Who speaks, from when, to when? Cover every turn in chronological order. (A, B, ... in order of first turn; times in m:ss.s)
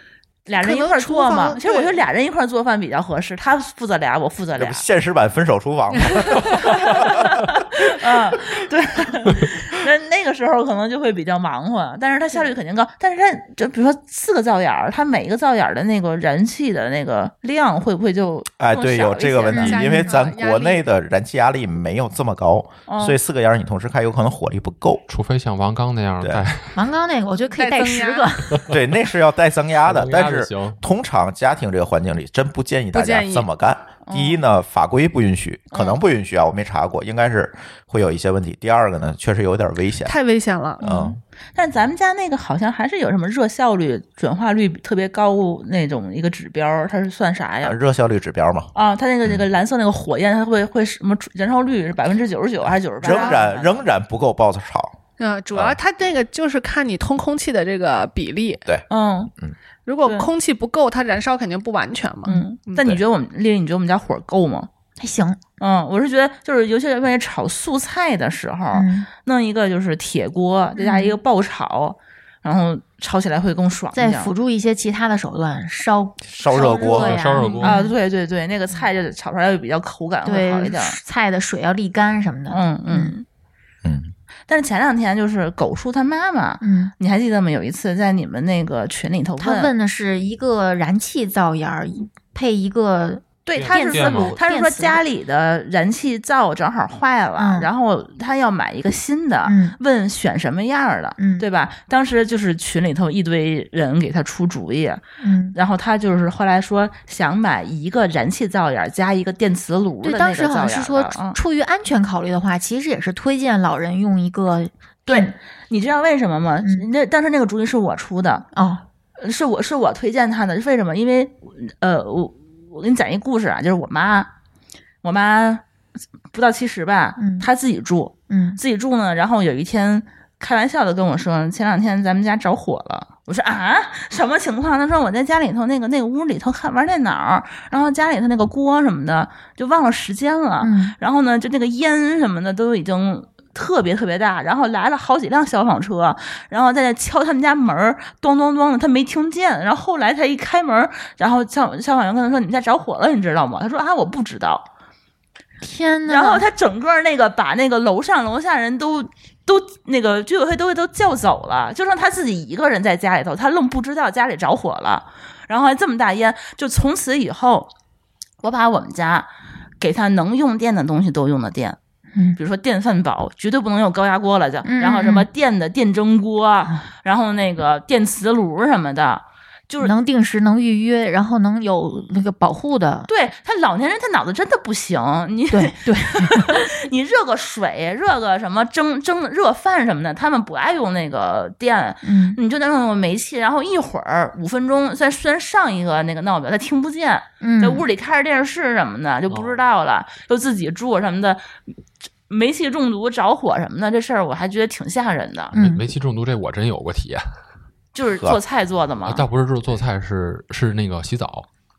0:00.5-0:04.8 A
0:00.6-0:02.0 B
0:04.6-0:07.6 C
0:06.5-0:19.8 A
0:18.6-0:25.0 C
0:19.5-0:20.8 B
0:19.5-0:20.1 D
0:22.9-0:23.2 A
0:25.1-0:26.8 E
0:26.2-0:26.5 C
0:26.8-0:28.6 D
0:27.5-0:28.4 B
0:28.7-0:40.1 C
0:29.8-0:30.8 E
0:32.9-0:33.5 B
0:34.1-0:34.4 A
0:35.7-0:36.0 A
0:40.0-0:40.8 B
0:40.8-0:47.8 A
0:40.8-0:41.2 C
0:47.6-0:48.7 C
0:48.8-0:53.8 A
0:53.0-0:55.0 C
0:53.1-0:53.4 B
0:55.2-0:58.6 B
0:58.9-0:59.3 A
0:59.9-1:02.8 B
1:02.3-1:04.7 A
1:05.0-1:05.4 D
1:05.6-1:14.3 A
1:08.7-1:09.1 D
1:10.8-1:11.2 D
1:13.9-1:18.0 D
1:16.3-1:17.2 C
1:16.5-1:17.0 A
1:16.9-1:17.8 E
1:17.6-1:21.0 A
1:20.2-1:23.1 D
1:22.5-1:23.2 A
1:23.8-1:24.1 C
1:24.5-1:29.7 A
1:26.6-1:26.9 D
1:29.4-1:35.0 D
1:33.5-1:45.0 A
1:33.6-1:34.4 E
1:37.4-1:37.7 D
1:39.4-1:39.8 D
1:41.2-1:41.5 D
1:45.2-1:45.6 D
1:45.6-1:51.4 A
1:50.0-1:55.3 D
1:55.1-1:58.5 A
1:58.5-1:58.8 D
1:59.2-2:04.3 A
2:05.0-2:05.6 A
2:06.3-2:34.7 A
2:07.2-2:07.5 D
2:08.3-2:08.6 D
2:20.6-2:21.0 D
2:35.6-2:36.5 D
2:36.1-2:47.7 A
2:48.4-2:49.3 A
2:49.8-2:51.8 A
2:52.4-2:59.9 A
2:54.6-2:55.3 D
2:59.8-3:03.1 D
3:03.1-3:21.6 A
3:05.5-3:06.6 D
3:12.0-3:12.4 D
3:17.4-3:17.8 D
3:19.3-3:19.6 E
3:22.3-3:25.5 A
3:25.5-3:27.3 E
3:25.5-3:25.8 D
3:27.9-3:29.3 A
3:28.0-3:28.4 C
3:29.0-3:31.5 E